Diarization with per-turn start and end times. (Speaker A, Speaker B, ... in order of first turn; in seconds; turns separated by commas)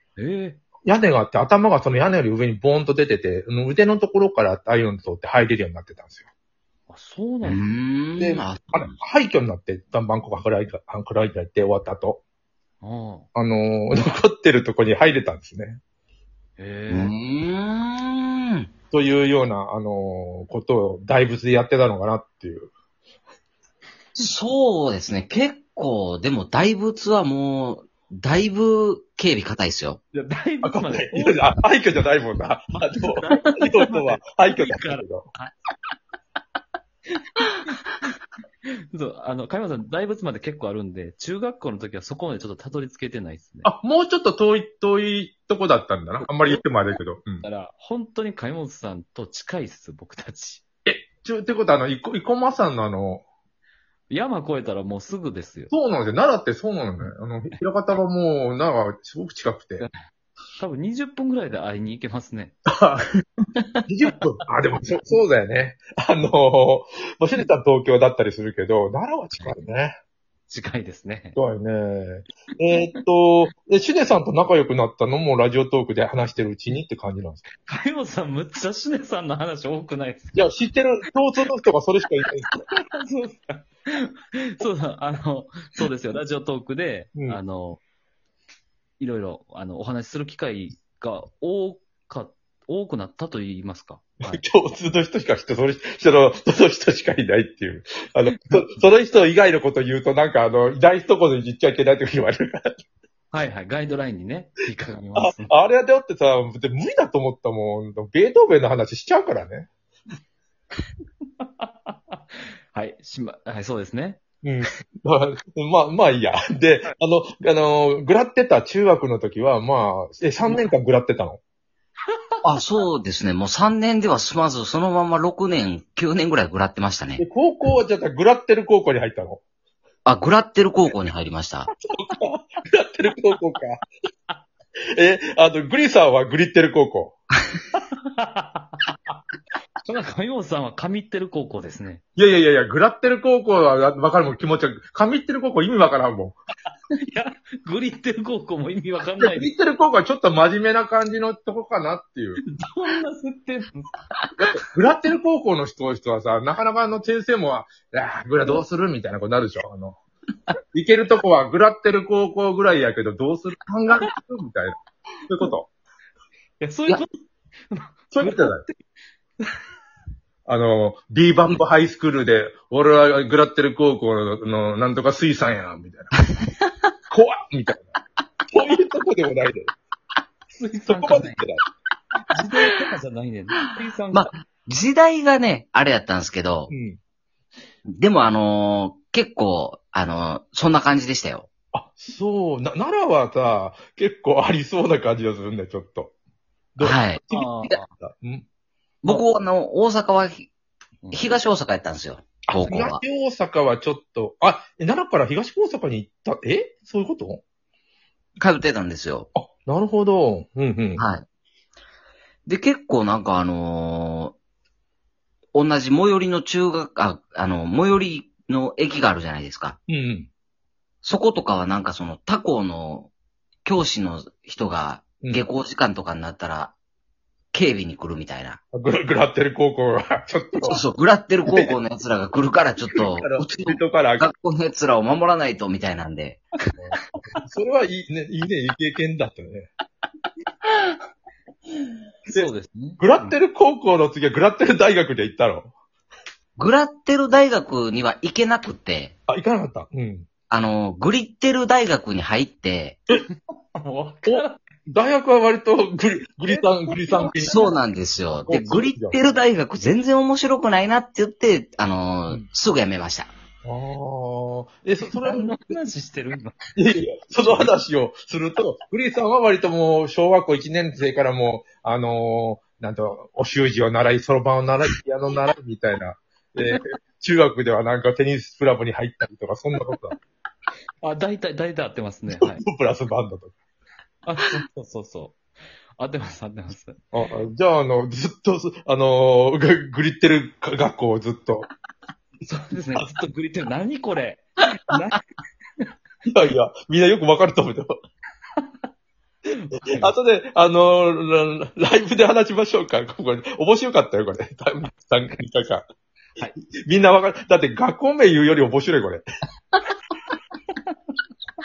Speaker A: 0.2-0.6, Speaker B: 0.9-6.2, Speaker A: 6.9-7.6, Speaker C: 7.4-9.0, Speaker B: 8.2-12.2, Speaker A: 12.8-13.3, Speaker B: 13.3-15.8, Speaker A: 16.6-17.1, Speaker C: 16.9-18.7, Speaker B: 18.9-22.7, Speaker C: 24.2-30.0, Speaker A: 30.1-31.4, Speaker B: 30.6-35.3, Speaker A: 33.0-35.5, Speaker A: 37.4-37.8, Speaker A: 38.9-43.7, Speaker B: 43.6-47.5, Speaker A: 46.2-46.6, Speaker A: 47.4-50.6, Speaker B: 50.9-53.2, Speaker A: 54.1-55.7, Speaker B: 55.7-59.9, Speaker A: 60.6-62.5, Speaker B: 62.7-63.1, Speaker B: 63.9-70.0, Speaker A: 70.5-71.4, Speaker B: 71.4-77.5, Speaker A: 77.7-80.4, Speaker B: 80.3-82.5, Speaker A: 82.5-87.8, Speaker A: 89.0-94.4, Speaker B: 94.3-102.8, Speaker A: 98.3-98.8, Speaker A: 103.3-105.5, Speaker B: 105.2-109.7, Speaker A: 111.4-112.2, Speaker A: 112.7-114.2, Speaker B: 114.4-121.4, Speaker C: 122.4-127.2, Speaker B: 127.2-129.4, Speaker C: 130.1-131.7, Speaker B: 131.9-133.8, Speaker B: 135.0-137.2, Speaker A: 138.1-138.9, Speaker A: 139.8-142.0, Speaker B: 142.2-146.4, Speaker A: 147.1-149.5, Speaker B: 149.2-152.4, Speaker A: 152.4-153.9, Speaker B: 154.5-160.0, Speaker B: 160.7-164.8, Speaker B: 165.3-165.7, Speaker A: 166.6-167.1, Speaker A: 167.7-168.8, Speaker B: 168.1-168.6, Speaker B: 170.5-176.1, Speaker B: 177.1-177.9, Speaker B: 178.5-179.7, Speaker A: 180.5-181.4, Speaker B: 180.9-181.6, Speaker A: 182.3-184.3, Speaker C: 184.1-186.7, Speaker B: 186.7-187.0, Speaker C: 188.0-191.5, Speaker B: 191.7-196.1, Speaker B: 196.8-198.4, Speaker C: 196.8-197.2, Speaker A: 197.3-197.9, Speaker A: 199.0-199.3, Speaker C: 199.1-200.5, Speaker A: 201.0-201.3, Speaker C: 201.1-203.0, Speaker B: 202.5-207.4, Speaker C: 208.4-209.3, Speaker B: 209.3-211.0, Speaker C: 211.0-211.2, Speaker C: 212.5-214.3, Speaker C: 215.6-219.8, Speaker B: 219.9-220.3, Speaker C: 221.0-223.1, Speaker C: 223.7-226.7, Speaker C: 227.5-228.6, Speaker B: 228.7-230.8, Speaker C: 230.7-236.4, Speaker B: 231.5-231.8, Speaker B: 232.9-234.3, Speaker B: 237.4-239.7, Speaker A: 242.3-243.0, Speaker B: 242.3-245.7, Speaker C: 246.6-249.1, Speaker B: 249.3-250.3, Speaker C: 250.5-253.0, Speaker A: 253.8-254.6, Speaker B: 254.3-257.7, Speaker A: 256.5-257.6, Speaker C: 257.4-263.3, Speaker B: 258.3-259.2, Speaker B: 263.6-265.6, Speaker A: 265.1-266.6, Speaker B: 266.8-280.2, Speaker A: 267.4-267.7, Speaker A: 281.0-282.6, Speaker B: 282.3-283.6, Speaker A: 284.3-285.4, Speaker A: 286.0-287.0, Speaker B: 287.1-291.7, Speaker A: 292.4-295.2, Speaker B: 296.3-298.0, Speaker A: 299.5-300.1, Speaker B: 299.9-305.9, Speaker B: 306.9-309.2